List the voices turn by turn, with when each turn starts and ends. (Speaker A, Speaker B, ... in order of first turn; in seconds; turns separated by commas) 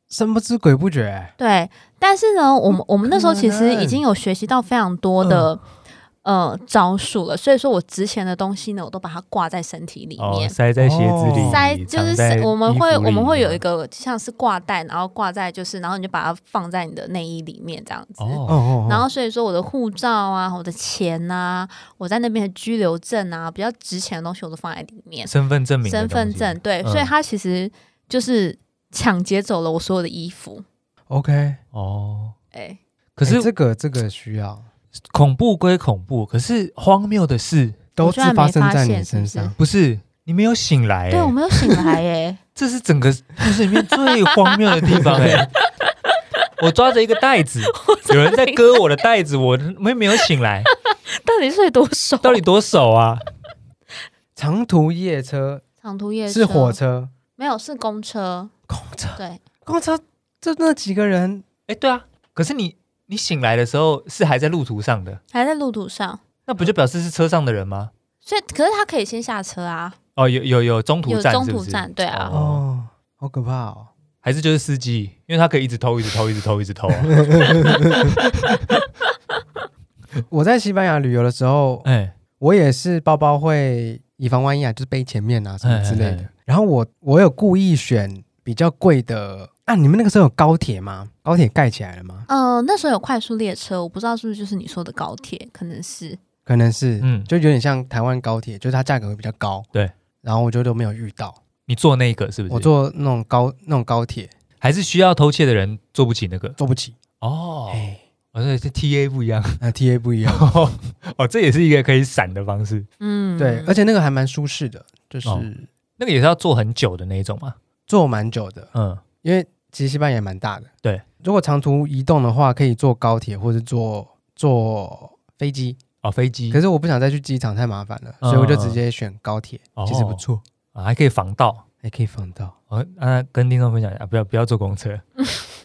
Speaker A: 0.1-1.3, Speaker B: 1.4-5.7, Speaker A: 3.0-4.0, Speaker B: 6.2-10.6, Speaker C: 10.2-13.6, Speaker A: 10.8-11.6, Speaker B: 11.4-25.3, Speaker C: 18.2-18.6, Speaker A: 18.5-19.1, Speaker C: 25.3-27.1, Speaker B: 25.8-30.6, Speaker A: 31.1-31.6, Speaker C: 31.7-32.4, Speaker B: 32.5-32.8, Speaker C: 33.2-33.5, Speaker A: 33.3-34.7, Speaker C: 35.1-37.8, Speaker A: 38.0-39.6, Speaker B: 38.0-39.5, Speaker C: 39.6-41.4, Speaker B: 41.1-42.4, Speaker C: 42.6-45.5, Speaker B: 43.9-46.2, Speaker A: 45.0-45.5, Speaker C: 46.6-50.7, Speaker B: 47.7-48.8, Speaker B: 50.7-52.4, Speaker C: 52.2-53.2, Speaker A: 54.4-55.6, Speaker B: 55.8-56.8, Speaker A: 56.3-57.1, Speaker B: 57.4-58.5, Speaker A: 58.7-61.5, Speaker B: 59.2-59.4, Speaker C: 61.7-65.2, Speaker B: 65.3-66.2, Speaker C: 66.5-67.9, Speaker B: 68.2-70.0, Speaker C: 70.2-72.6, Speaker B: 71.1-72.3, Speaker A: 72.3-73.9, Speaker C: 74.2-78.8, Speaker A: 77.2-78.1, Speaker A: 80.3-81.8, Speaker C: 81.8-82.2, Speaker A: 82.4-92.3, Speaker C: 85.6-86.3, Speaker B: 92.3-96.2, Speaker A: 96.5-99.7, Speaker C: 97.0-97.3, Speaker A: 100.2-101.4, Speaker C: 101.7-102.7, Speaker A: 102.5-104.3, Speaker C: 104.6-106.6, Speaker A: 106.6-107.0, Speaker C: 107.2-109.6, Speaker A: 107.7-108.0, Speaker A: 109.6-110.5, Speaker C: 110.3-112.9, Speaker B: 113.0-113.8, Speaker A: 113.4-115.7, Speaker C: 115.2-117.6, Speaker A: 117.9-118.7, Speaker C: 118.8-119.0, Speaker A: 119.2-120.7, Speaker A: 121.2-125.8, Speaker C: 126.0-126.6, Speaker A: 126.5-130.4, Speaker C: 128.2-128.8, Speaker C: 129.8-130.2, Speaker C: 130.7-131.6, Speaker A: 131.8-132.6, Speaker C: 132.7-135.0